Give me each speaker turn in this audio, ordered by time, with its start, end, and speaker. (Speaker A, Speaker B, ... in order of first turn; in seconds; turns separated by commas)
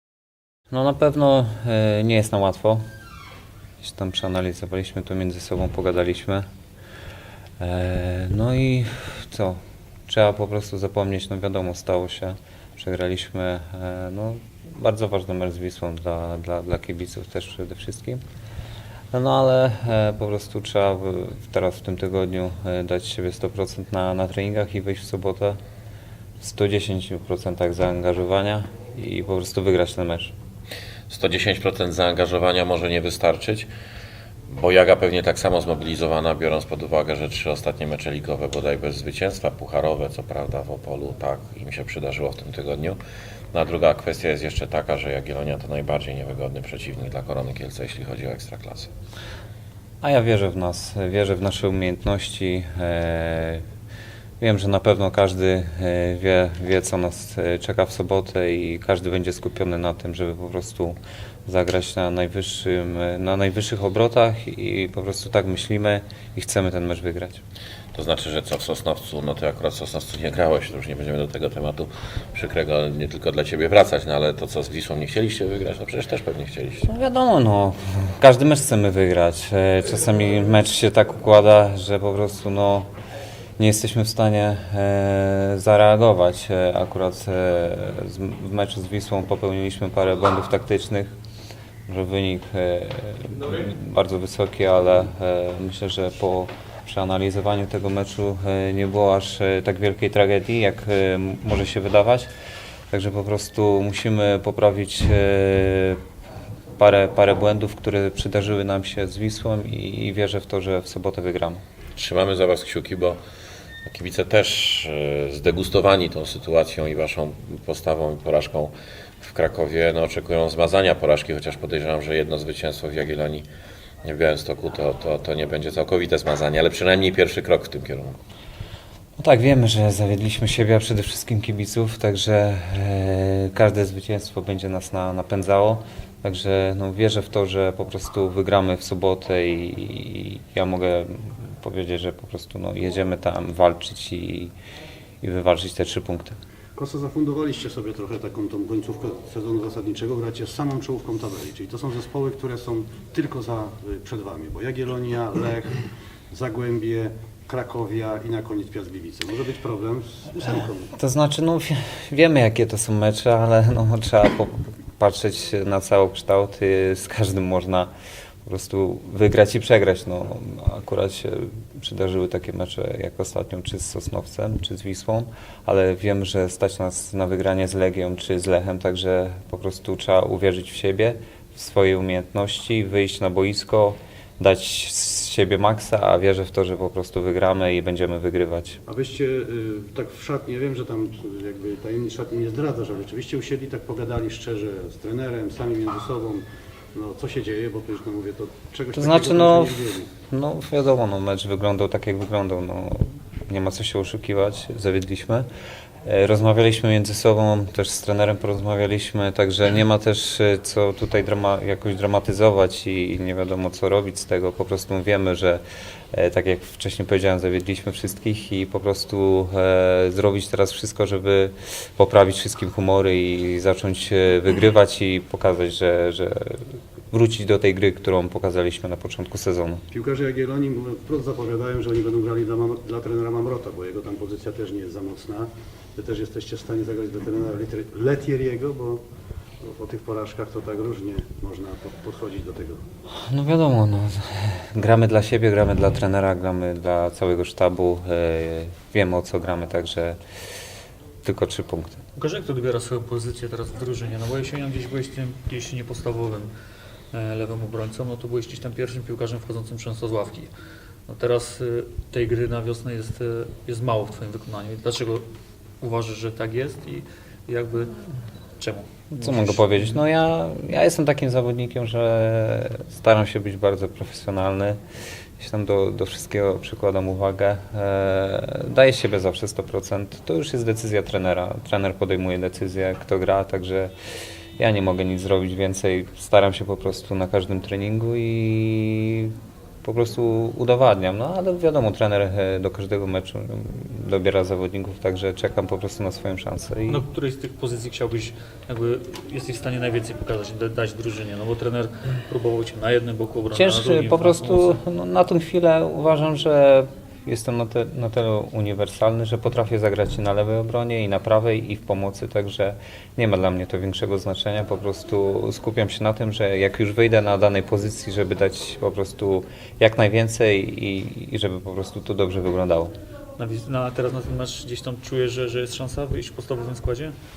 Speaker A: 0.7-2.8, Speaker A: 3.8-6.5, Speaker A: 7.6-18.2, Speaker A: 19.1-25.6, Speaker A: 26.4-30.3, Speaker B: 31.1-33.7, Speaker B: 34.5-43.0, Speaker B: 43.5-48.9, Speaker A: 50.0-53.6, Speaker A: 54.4-67.4, Speaker B: 67.9-76.9, Speaker A: 76.8-82.9, Speaker A: 83.6-91.1, Speaker A: 91.9-102.3, Speaker A: 102.9-106.0, Speaker A: 106.8-111.6, Speaker B: 111.9-113.2, Speaker B: 113.8-123.5, Speaker B: 124.0-128.2, Speaker A: 129.2-144.5, Speaker A: 145.2-146.4, Speaker C: 146.8-155.8, Speaker C: 156.3-160.9, Speaker A: 160.9-167.9, Speaker A: 168.4-188.8, Speaker C: 188.9-196.4, Speaker C: 196.9-200.1, Speaker A: 198.9-205.5, Speaker A: 206.0-215.6, Speaker A: 216.1-229.8, Speaker C: 229.9-239.0, Speaker C: 239.6-242.8, Speaker A: 243.2-250.2, Speaker A: 251.2-252.0, Speaker D: 252.2-256.5, Speaker D: 257.1-260.5, Speaker D: 261.1-265.2, Speaker D: 265.8-268.0, Speaker D: 268.6-269.5, Speaker A: 269.1-274.8, Speaker A: 275.4-283.9, Speaker A: 284.6-297.0, Speaker D: 296.9-304.7, Speaker A: 303.5-322.9, Speaker D: 323.4-327.1